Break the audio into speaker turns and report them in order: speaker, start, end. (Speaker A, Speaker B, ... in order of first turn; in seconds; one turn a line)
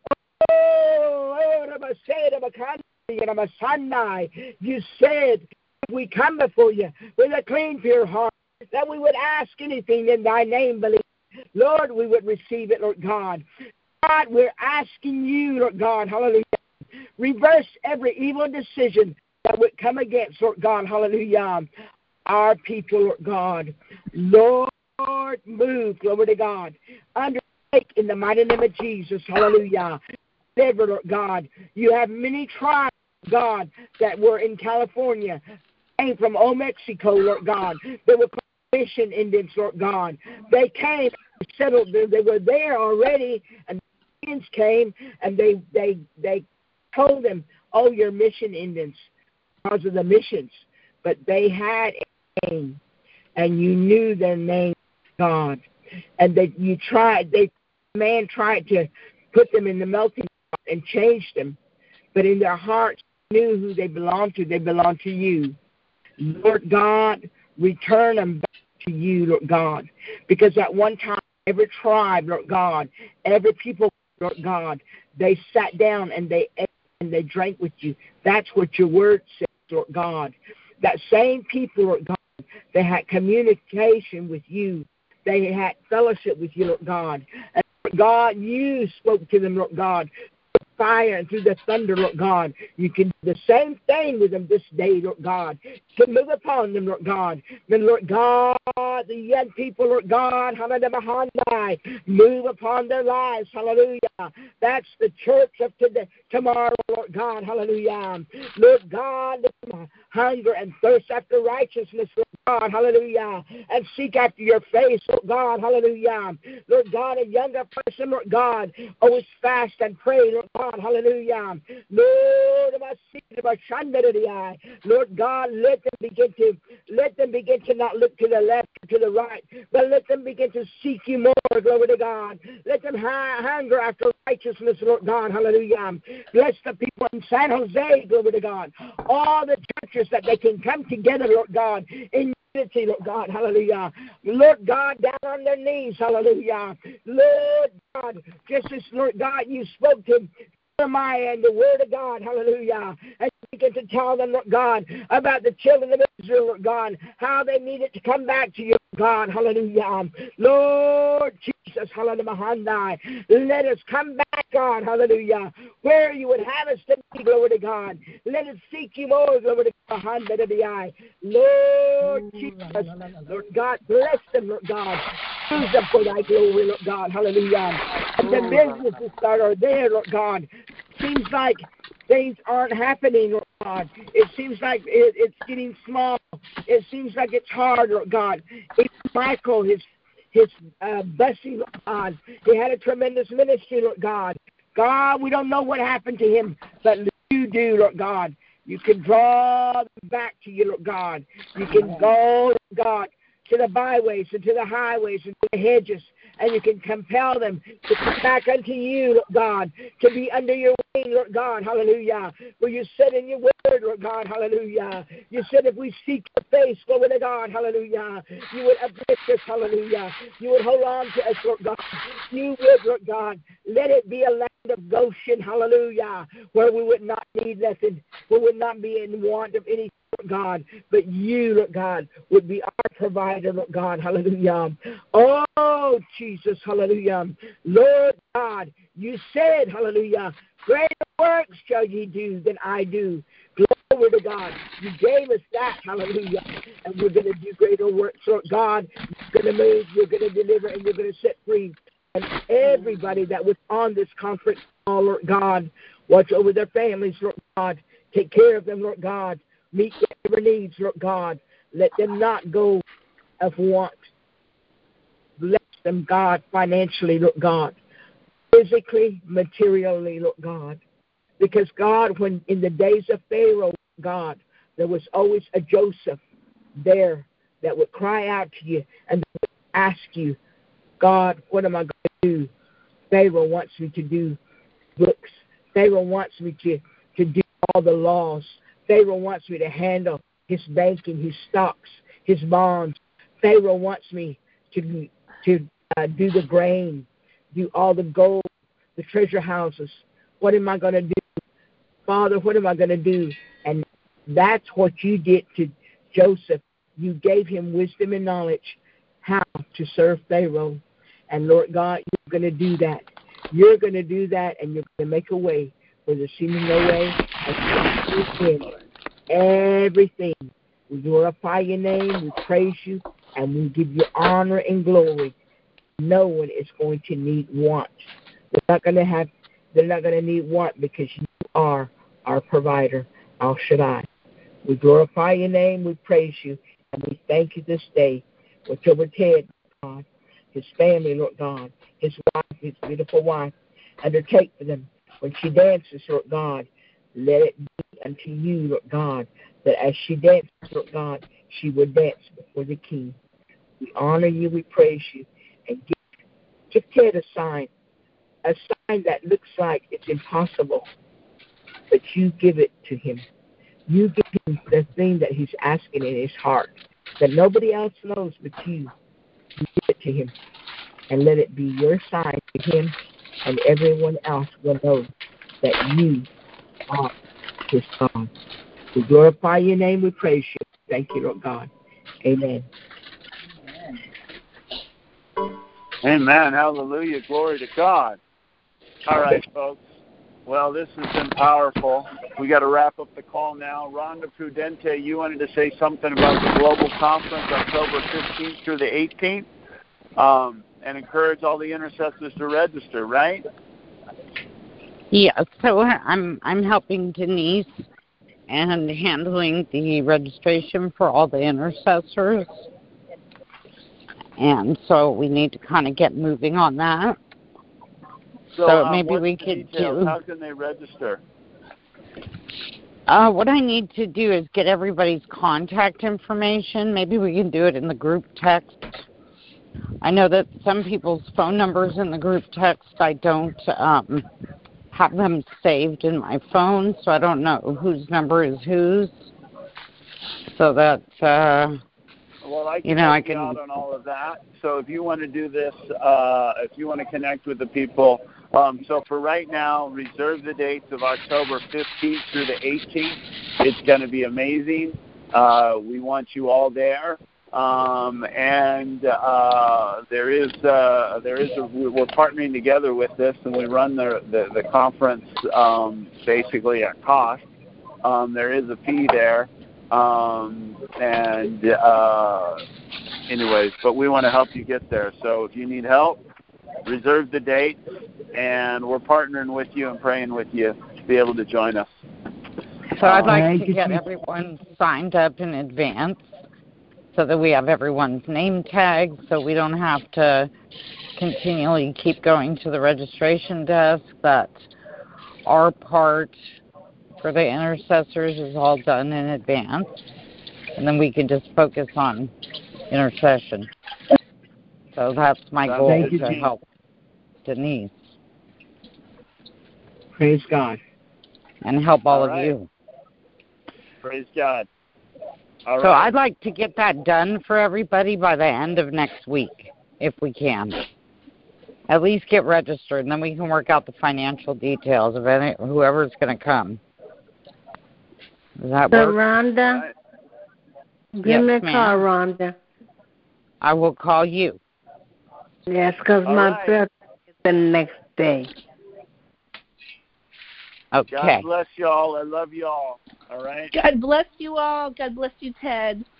Speaker A: 0.4-11.0
Speaker A: 11.6-13.4
Speaker A: 14.0-16.6
Speaker A: 17.2-21.7
Speaker A: 22.3-30.0
Speaker A: 30.6-35.4
Speaker A: 36.0-49.0
Speaker A: 49.6-52.8
Speaker A: 53.4-55.6
Speaker A: 56.2-61.6
Speaker A: 62.1-65.6
Speaker A: 66.2-82.2
Speaker A: 82.7-90.1
Speaker A: 90.8-262.8
Speaker B: 172.2-173.0
Speaker A: 263.4-264.1
Speaker A: 265.4-267.8
Speaker A: 268.5-270.8
Speaker A: 271.4-276.2
Speaker A: 276.8-280.4
Speaker A: 281.0-282.5
Speaker A: 283.1-284.4
Speaker A: 285.0-301.2
Speaker A: 302.1-318.8
Speaker A: 319.3-320.4
Speaker A: 320.9-325.3
Speaker A: 326.0-328.0
Speaker A: 328.5-334.1
Speaker A: 334.6-353.2
Speaker A: 353.8-356.0
Speaker A: 356.7-357.7
Speaker A: 358.4-360.9
Speaker A: 361.9-363.2
Speaker A: 363.9-368.9
Speaker A: 369.6-370.3
Speaker A: 371.1-375.1
Speaker A: 375.6-376.3
Speaker A: 377.7-378.3
Speaker A: 378.9-381.7
Speaker A: 382.2-382.7
Speaker C: 386.0-388.2
Speaker C: 389.1-389.8
Speaker C: 390.5-399.5
Speaker C: 400.2-403.4
Speaker D: 405.1-407.8
Speaker D: 408.5-412.7
Speaker D: 414.4-417.2
Speaker C: 418.6-421.2
Speaker D: 418.6-420.2
Speaker D: 423.1-429.1
Speaker D: 430.0-434.3
Speaker D: 434.9-439.3
Speaker D: 440.5-441.8
Speaker C: 442.4-467.4
Speaker D: 442.9-443.6
Speaker C: 468.0-472.6
Speaker C: 473.3-476.2
Speaker C: 476.9-477.8
Speaker C: 478.3-481.9
Speaker D: 483.0-486.3
Speaker A: 483.1-484.1
Speaker D: 487.1-490.5
Speaker D: 491.2-494.7
Speaker D: 495.5-496.4
Speaker D: 497.2-499.9
Speaker D: 500.8-502.3
Speaker D: 502.9-503.7
Speaker D: 504.9-506.6
Speaker C: 505.6-506.5
Speaker A: 505.8-506.4
Speaker D: 507.4-508.1
Speaker A: 510.2-510.8
Speaker D: 511.6-512.7
Speaker C: 512.1-512.5
Speaker C: 514.0-514.7
Speaker C: 515.7-516.1
Speaker D: 515.8-520.8
Speaker D: 521.9-526.8
Speaker D: 528.6-529.1
Speaker E: 528.9-529.9
Speaker C: 529.6-529.9
Speaker E: 531.2-532.6
Speaker D: 531.2-532.0
Speaker D: 533.6-534.6
Speaker E: 535.7-536.9
Speaker C: 536.2-536.8
Speaker E: 537.4-538.5
Speaker D: 540.9-541.5
Speaker C: 541.1-543.7
Speaker B: 543.7-546.0